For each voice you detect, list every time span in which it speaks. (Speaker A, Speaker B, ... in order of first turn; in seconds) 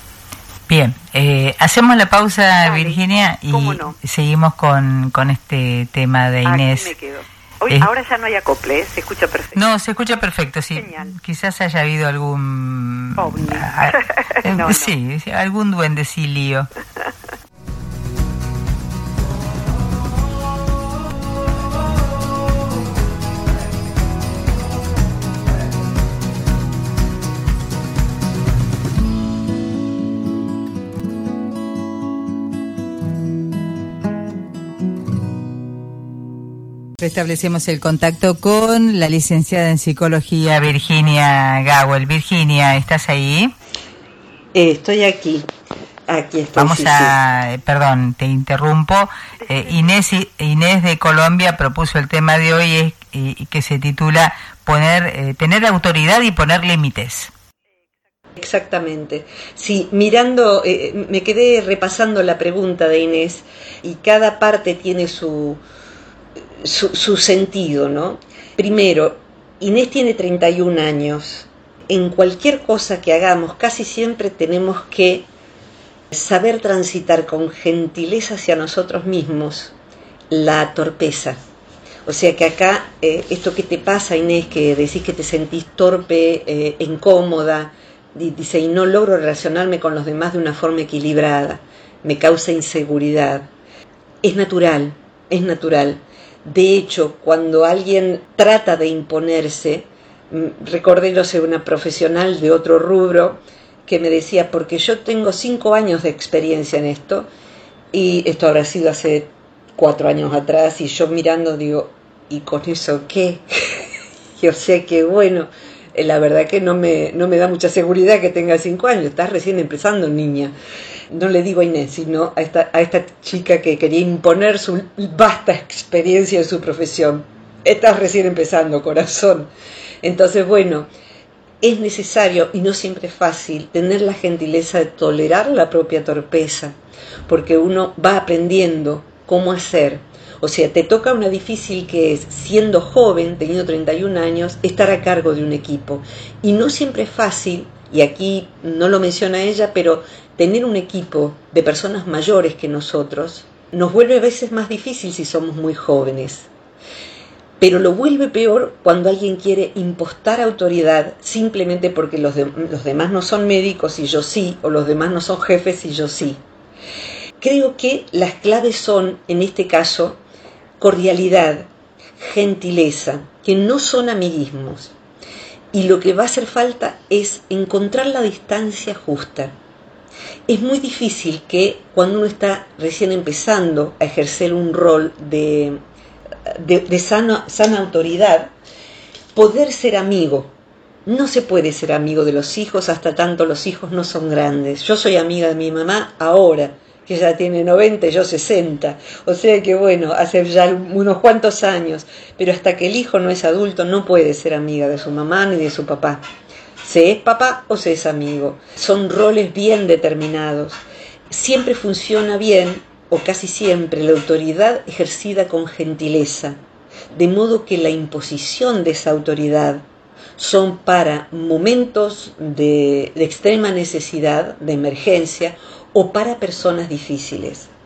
Speaker A: 0.7-7.0, 9.6-16.7, 37.0-43.5, 46.6-57.3
Speaker B: 2.6-4.0, 6.5-9.6, 10.8-11.1, 13.2-14.9, 49.4-49.9
Speaker C: 44.5-45.5, 46.1-47.2, 58.4-65.6, 66.6-75.3, 76.1-79.8, 80.3-81.4, 82.1-93.5, 94.2-107.3, 107.9-113.8, 114.4-120.5, 121.1-129.5, 130.0-130.9, 131.6-136.8, 137.3-156.5, 157.6-166.4, 167.4-170.2, 170.8-171.7, 172.2-174.9, 175.7-179.6, 180.5-185.8, 186.5-188.5, 189.3-190.5, 191.1-206.2, 206.8-210.8, 211.3-216.6, 217.2-219.8, 220.4-227.7